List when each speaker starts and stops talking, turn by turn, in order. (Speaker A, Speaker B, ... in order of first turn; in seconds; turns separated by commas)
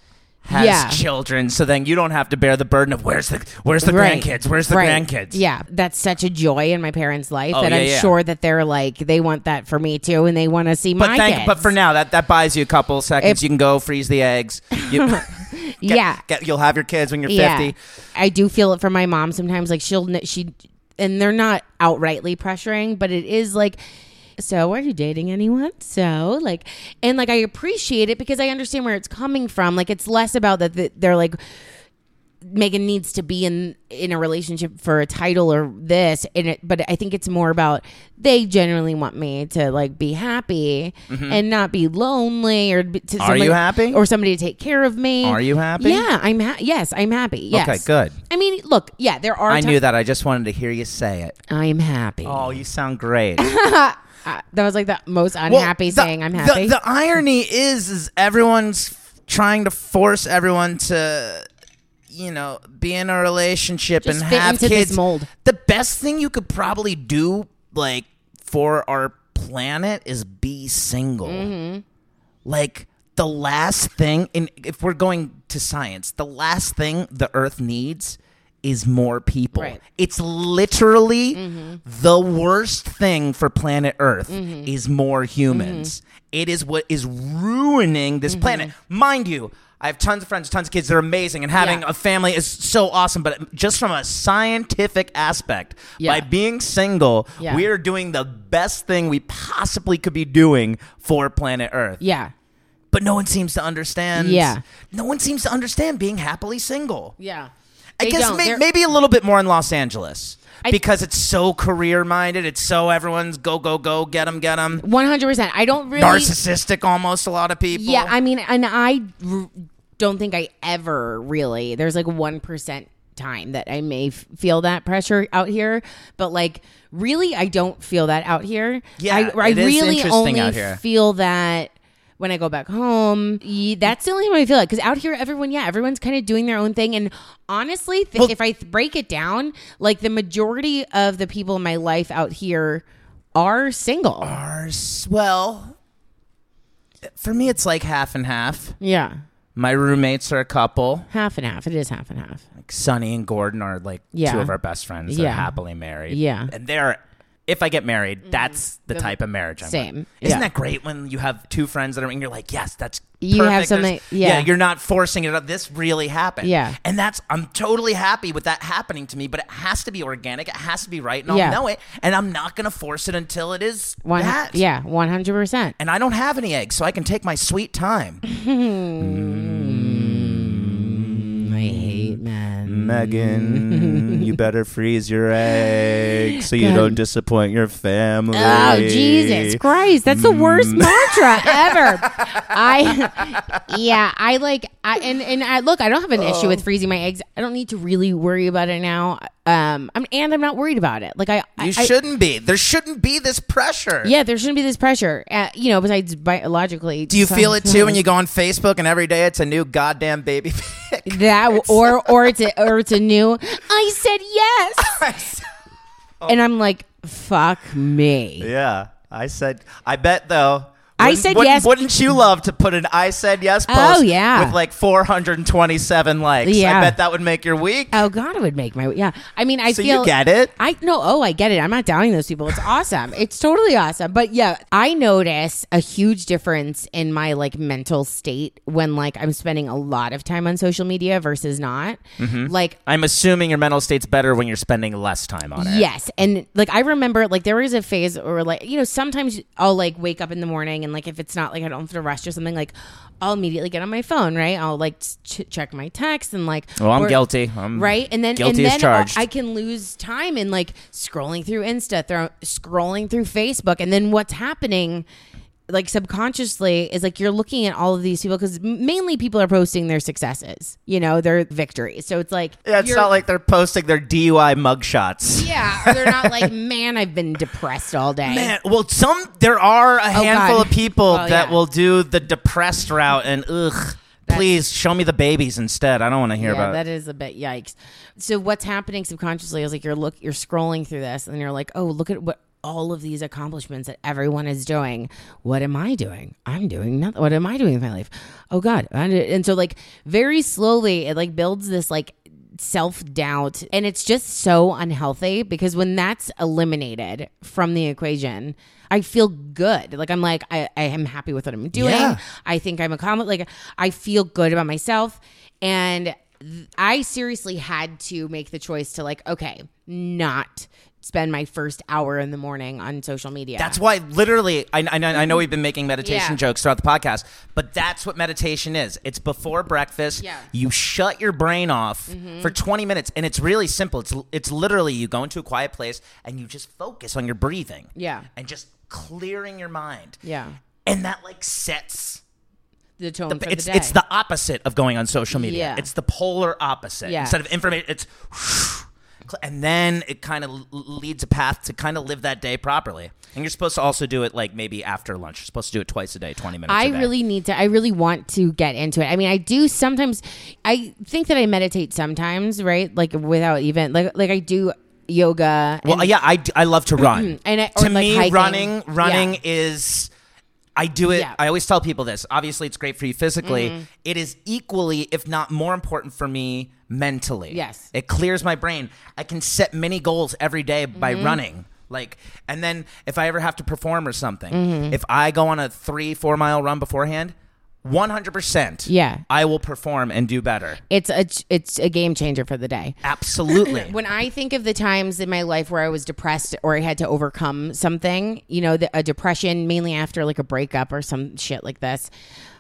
Speaker A: 0.4-5.4, Speaker B: 0.5-1.0, Speaker B: 3.8-11.7, Speaker A: 7.5-8.1, Speaker A: 11.0-17.7, Speaker B: 14.7-16.2, Speaker B: 17.3-23.8, Speaker B: 24.4-31.4, Speaker B: 32.4-49.8, Speaker A: 41.1-41.4, Speaker A: 43.2-44.0, Speaker A: 45.2-46.1, Speaker A: 47.5-48.2, Speaker A: 49.5-51.4, Speaker B: 51.5-52.6, Speaker A: 52.2-53.4, Speaker B: 53.4-56.7, Speaker A: 55.5-61.4, Speaker A: 62.1-71.5, Speaker B: 64.0-65.3, Speaker B: 71.2-71.8, Speaker A: 72.4-102.0, Speaker B: 79.5-79.8, Speaker B: 81.3-81.8, Speaker B: 84.3-84.7, Speaker B: 85.5-85.9, Speaker B: 88.3-88.7, Speaker B: 91.5-91.8, Speaker B: 96.0-96.2, Speaker B: 97.4-97.7, Speaker B: 102.0-102.3, Speaker A: 102.9-107.2, Speaker B: 104.2-104.6, Speaker B: 107.2-108.6, Speaker A: 108.0-114.8, Speaker B: 114.8-116.3, Speaker A: 115.9-118.1, Speaker B: 117.7-144.4, Speaker A: 129.0-130.8, Speaker A: 144.2-145.8, Speaker A: 147.0-148.8, Speaker B: 148.8-149.2, Speaker A: 149.6-151.1, Speaker B: 151.1-152.4, Speaker A: 152.5-174.6, Speaker B: 154.1-154.5, Speaker B: 155.1-155.5, Speaker B: 156.1-156.5, Speaker B: 158.9-160.5, Speaker B: 163.2-164.5, Speaker B: 166.4-166.8, Speaker B: 171.3-171.6, Speaker B: 174.0-175.8, Speaker A: 175.8-178.2, Speaker B: 178.2-184.3, Speaker A: 179.0-193.8, Speaker B: 185.5-187.0, Speaker B: 188.3-201.9, Speaker A: 196.2-196.6, Speaker A: 201.6-204.1, Speaker B: 204.0-208.0, Speaker A: 207.1-212.4, Speaker B: 211.1-215.1, Speaker A: 214.8-215.4, Speaker B: 216.3-218.5, Speaker A: 218.4-228.0, Speaker B: 221.0-221.7, Speaker B: 223.7-224.6, Speaker B: 226.4-226.9, Speaker B: 227.9-242.8, Speaker A: 229.7-230.5, Speaker A: 242.2-245.8, Speaker B: 245.6-257.2, Speaker A: 256.8-259.2, Speaker B: 257.7-265.0, Speaker B: 265.7-273.1, Speaker A: 272.6-276.5, Speaker B: 275.3-278.5, Speaker A: 278.2-286.8, Speaker B: 280.1-281.6, Speaker B: 286.4-323.8, Speaker A: 311.7-312.2, Speaker A: 323.6-340.2, Speaker B: 326.0-326.4, Speaker B: 330.2-330.5, Speaker B: 332.1-332.5, Speaker B: 337.9-338.3, Speaker B: 340.2-340.6, Speaker A: 340.8-342.2, Speaker B: 343.0-343.9, Speaker A: 343.3-357.1, Speaker B: 345.3-345.9, Speaker B: 347.0-347.4, Speaker B: 356.7-366.1, Speaker A: 365.8-370.1, Speaker B: 367.0-369.4, Speaker A: 370.8-390.8, Speaker B: 371.1-371.4, Speaker B: 373.4-373.9, Speaker B: 377.5-377.9, Speaker B: 380.9-381.4, Speaker B: 384.5-385.0, Speaker B: 388.9-389.2, Speaker B: 390.9-402.1, Speaker A: 393.0-393.9